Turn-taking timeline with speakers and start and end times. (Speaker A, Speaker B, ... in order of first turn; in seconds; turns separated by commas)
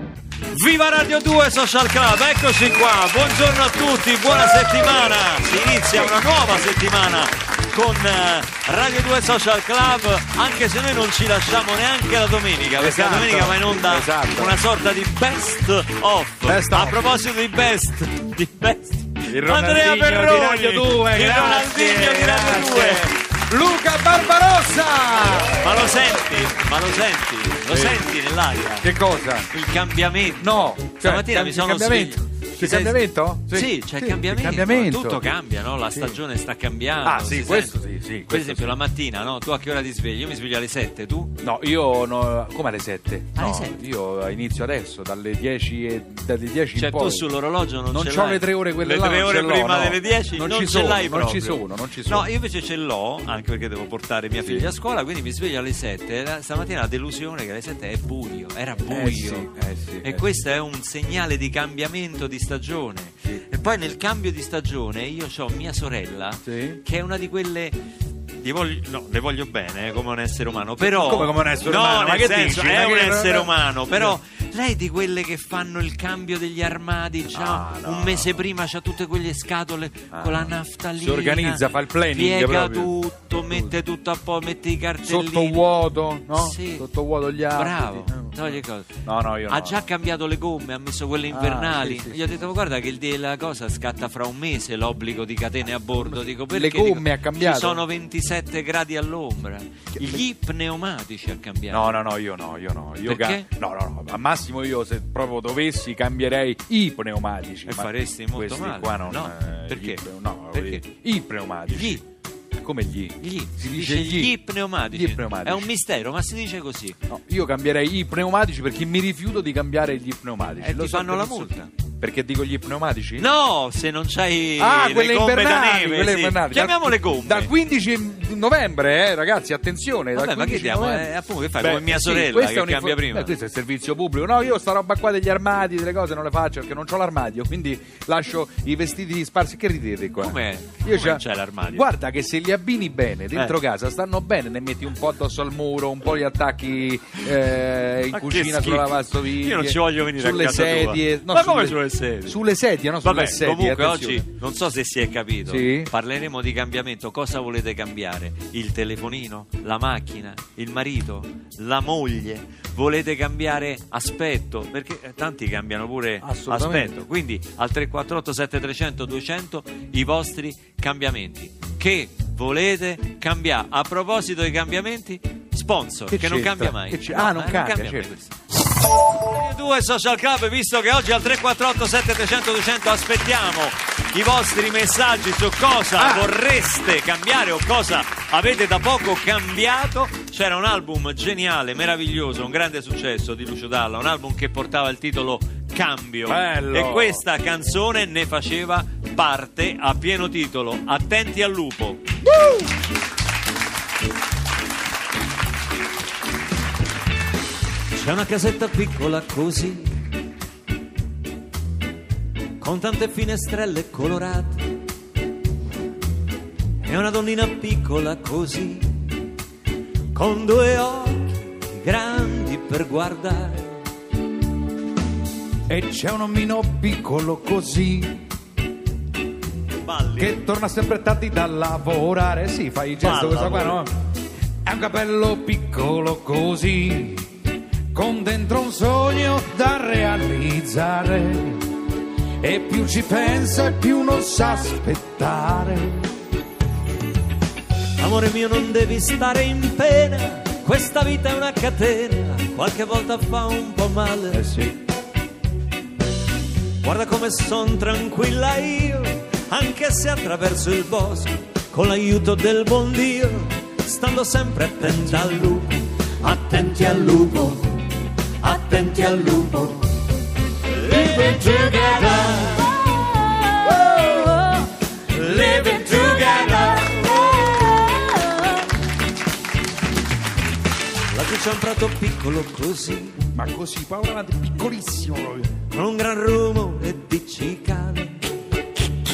Speaker A: 0.5-23.1, Speaker B: 12.8-14.6, Speaker B: 16.4-17.1, Speaker B: 19.3-26.1, Speaker A: 25.6-28.9, Speaker B: 27.6-28.1, Speaker B: 28.8-29.5, Speaker A: 29.5-41.3, Speaker B: 30.4-35.3, Speaker B: 35.9-36.2, Speaker B: 37.0-38.8, Speaker B: 41.4-47.3, Speaker A: 43.4-43.8, Speaker A: 46.8-59.5, Speaker B: 47.9-52.3, Speaker B: 54.4-54.7, Speaker B: 58.9-60.2, Speaker A: 60.0-67.8, Speaker B: 66.5-66.8, Speaker A: 68.4-85.7, Speaker B: 70.8-74.2, Speaker B: 77.3-78.3, Speaker B: 80.1-82.9, Speaker B: 85.1-89.9, Speaker A: 86.3-86.9, Speaker A: 87.5-102.0, Speaker B: 91.3-92.3, Speaker B: 95.8-97.8, Speaker B: 99.9-100.2, Speaker B: 101.7-112.0, Speaker A: 103.0-103.5, Speaker A: 107.7-110.8, Speaker A: 111.7-112.0, Speaker B: 112.6-114.4, Speaker A: 113.2-117.0, Speaker B: 114.9-115.7, Speaker B: 117.1-123.3, Speaker A: 120.6-121.7, Speaker A: 123.2-127.5, Speaker B: 124.6-154.3, Speaker A: 130.2-133.3, Speaker A: 140.2-141.9, Speaker A: 148.1-152.4, Speaker A: 153.0-178.3, Speaker B: 155.5-155.9, Speaker B: 166.2-167.0, Speaker B: 176.1-178.1, Speaker A: 179.2-202.0, Speaker B: 186.0-186.3, Speaker B: 196.3-197.2, Speaker A: 207.9-209.9, Speaker A: 212.6-214.7, Speaker A: 216.8-219.1, Speaker A: 220.1-223.8, Speaker B: 225.7-228.2, Speaker A: 229.8-230.4, Speaker B: 230.2-233.9, Speaker A: 233.0-233.8, Speaker B: 234.7-237.3, Speaker B: 237.9-241.7, Speaker B: 242.4-246.1, Speaker A: 248.0-254.4, Speaker B: 254.3-254.8, Speaker A: 256.8-267.8, Speaker A: 268.4-269.9, Speaker A: 270.7-273.0, Speaker A: 273.7-278.1, Speaker A: 281.1-283.2, Speaker B: 283.3-285.6, Speaker A: 285.7-288.3